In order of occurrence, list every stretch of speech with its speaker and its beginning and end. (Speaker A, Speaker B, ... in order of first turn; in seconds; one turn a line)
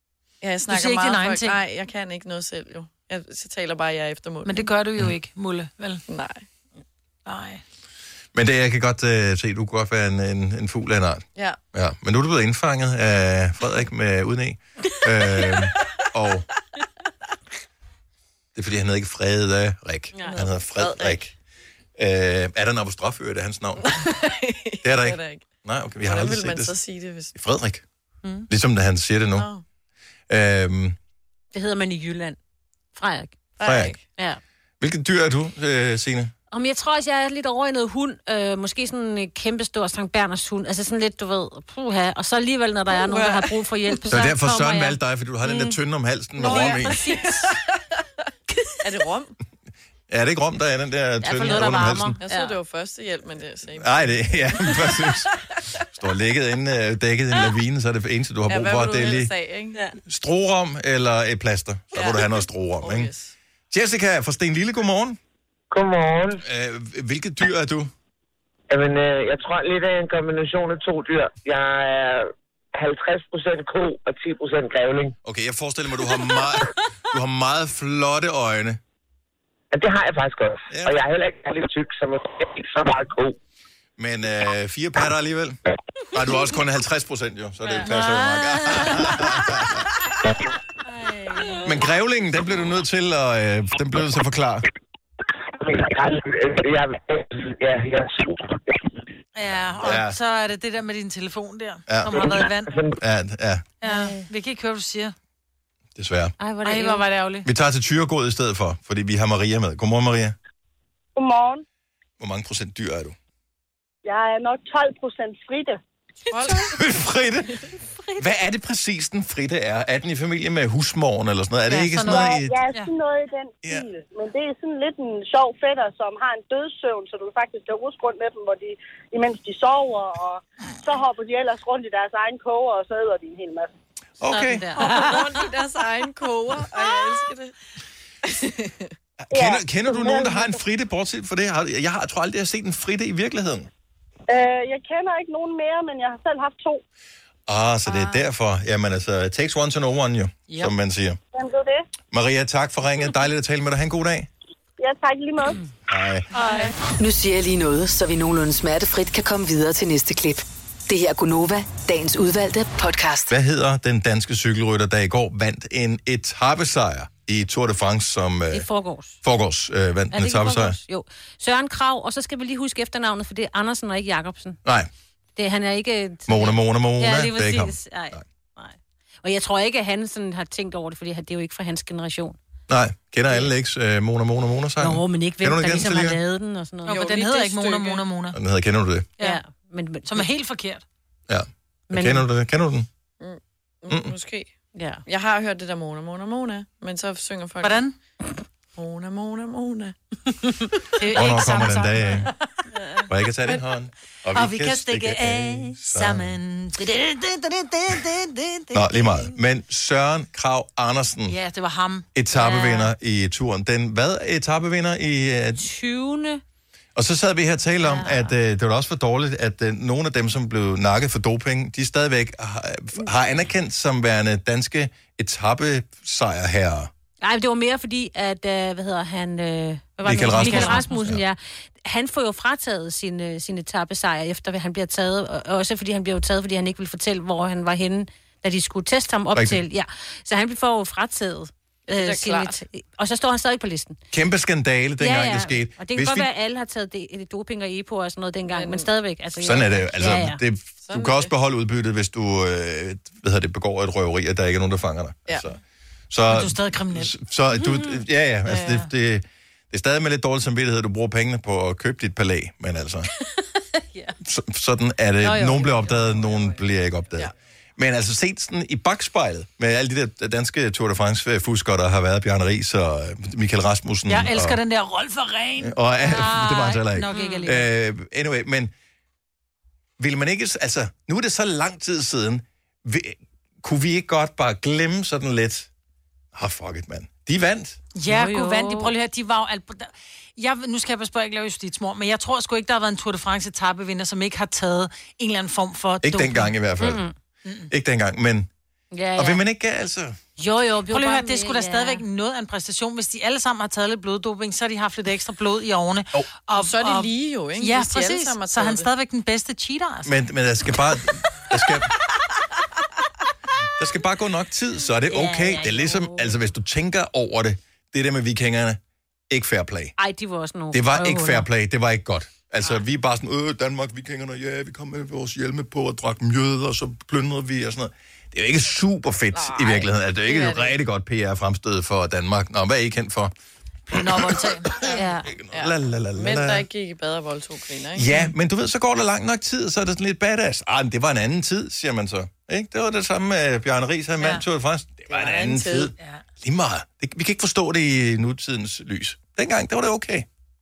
Speaker A: 0.4-4.7
Speaker B: 0.7-1.6
Speaker B: 4.4-6.0
Speaker A: 6.1-6.4
Speaker B: 7.2-7.6
Speaker C: 8.3-16.4
Speaker C: 18.5-21.3
Speaker D: 20.1-20.4
Speaker A: 20.2-21.3
Speaker C: 22.0-23.9
Speaker A: 23.8-25.4
Speaker C: 24.8-26.7
Speaker A: 26.0-27.3
Speaker C: 27.3-27.8
Speaker C: 28.5-29.5
Speaker A: 29.4-29.6
Speaker C: 30.3-31.0
Speaker D: 31.5-32.4
Speaker D: 32.9-33.4
Speaker A: 33.6-34.0
Speaker C: 33.6-34.0
Speaker C: 34.8-36.3
Speaker D: 36.5-45.8
Speaker A: 42.9-44.0
Speaker C: 44.1-47.0
Speaker D: 46.4-47.6
Speaker A: 46.5-47.5
Speaker A: 48.8-49.3
Speaker C: 50.1-52.2
Speaker D: 51.2-52.6
Speaker A: 52.2-55.0
Speaker C: 53.8-59.3
Speaker A: 58.5-59.8
Speaker C: 60.0-63.1
Speaker A: 62.0-63.3
Speaker C: 63.7-65.2
Speaker E: 65.7-66.4
Speaker C: 66.4-67.9
Speaker E: 68.7-75.2
Speaker C: 75.2-78.8
Speaker E: 79.7-83.3
Speaker C: 80.7-81.0
Speaker C: 84.0-85.6
Speaker C: 86.1-89.8
Speaker D: 87.7-89.5
Speaker D: 90.9-91.8
Speaker C: 91.6-94.7
Speaker E: 95.5-98.8
Speaker B: 99.3-102.8
Speaker C: 99.8-100.2
Speaker C: 101.9-102.2
Speaker E: 102.1-103.0
Speaker C: 103.0-103.6
Speaker B: 103.8-105.1
Speaker D: 103.8-104.2
Speaker C: 106.0-106.3
Speaker D: 106.4-107.0
Speaker B: 106.6-107.5
Speaker C: 107.4-110.3
Speaker F: 111.2-111.6
Speaker C: 112.2-113.2
Speaker F: 114.0-115.8
Speaker A: 116.3-116.8
Speaker D: 116.3-116.6
Speaker C: 116.7-117.5
Speaker D: 117.8-118.2
Speaker C: 118.2-122.6
Speaker B: 121.7-122.9
Speaker F: 122.0-133.7
Speaker C: 134.2-134.7
Speaker D: 134.3-135.4
Speaker A: 134.7-137.5
Speaker A: 138.2-138.9
Speaker C: 139.3-143.7
Speaker F: 139.3-140.6
Speaker F: 144.3-146.8
Speaker C: 147.5-151.2
Speaker F: 151.3-151.8
Speaker C: 152.1-154.3
Speaker F: 154.8-155.6
Speaker C: 155.9-156.3
Speaker B: 156.3-156.7
Speaker G: 157.0-163.3
Speaker C: 163.3-168.7
Speaker D: 168.5-169.2
Speaker C: 169.2-170.8
Speaker D: 170.1-174.6
Speaker D: 175.3-182.4
Speaker C: 176.3-178.2
Speaker C: 182.7-186.2
Speaker D: 184.8-187.1
Speaker A: 186.9-188.0
Speaker B: 186.9-188.4
Speaker C: 188.3-189.1
Speaker D: 189.2-190.3
Speaker B: 190.1-190.8
Speaker C: 191.3-192.9
Speaker D: 191.9-192.2
Speaker A: 193.2-194.5
Speaker D: 194.7-195.0
Speaker A: 195.1-197.8
Speaker B: 197.6-197.9
Speaker A: 198.8-199.9
Speaker B: 201.0-202.3
Speaker C: 201.1-202.3
Speaker D: 202.8-203.0
Speaker C: 203.1-206.4
Speaker B: 204.3-209.0
Speaker C: 208.7-211.3
Speaker B: 211.3-212.1
Speaker C: 212.1-215.6
Speaker D: 212.3-212.9
Speaker D: 215.6-216.4
Speaker C: 216.9-226.9
Speaker D: 217.8-218.3
Speaker D: 227.2-244.0
Speaker C: 230.0-231.2
Speaker B: 230.3-231.1
Speaker C: 239.3-239.6
Speaker A: 241.9-242.6
Speaker C: 244.1-246.3
Speaker D: 245.0-250.4
Speaker A: 248.5-248.9
Speaker C: 249.4-255.6
Speaker A: 250.8-251.3
Speaker C: 256.1-263.1
Speaker B: 256.2-257.1
Speaker D: 257.6-258.0
Speaker B: 258.5-258.9
Speaker C: 264.2-274.6
Speaker D: 265.2-266.5
Speaker B: 274.1-277.7
Speaker C: 275.6-278.7
Speaker D: 277.1-277.5
Speaker C: 280.0-285.7
Speaker C: 286.3-287.8
Speaker B: 287.9-296.5
Speaker D: 288.1-288.9
Speaker C: 296.0-297.0
Speaker D: 296.8-297.1
Speaker B: 297.4-297.7
Speaker C: 297.7-298.5
Speaker D: 298.9-299.4
Speaker C: 299.1-300.2
Speaker D: 300.4-302.0
Speaker B: 300.4-310.1
Speaker A: 306.5-308.9
Speaker C: 310.1-311.9
Speaker C: 313.8-319.9
Speaker D: 315.1-316.4
Speaker D: 320.0-321.5
Speaker C: 320.7-333.3
Speaker A: 329.3-330.8
Speaker B: 333.9-335.0
Speaker C: 334.3-336.6
Speaker D: 334.9-335.3
Speaker A: 335.5-338.1
Speaker C: 337.9-350.2
Speaker B: 344.2-344.4
Speaker A: 345.1-345.9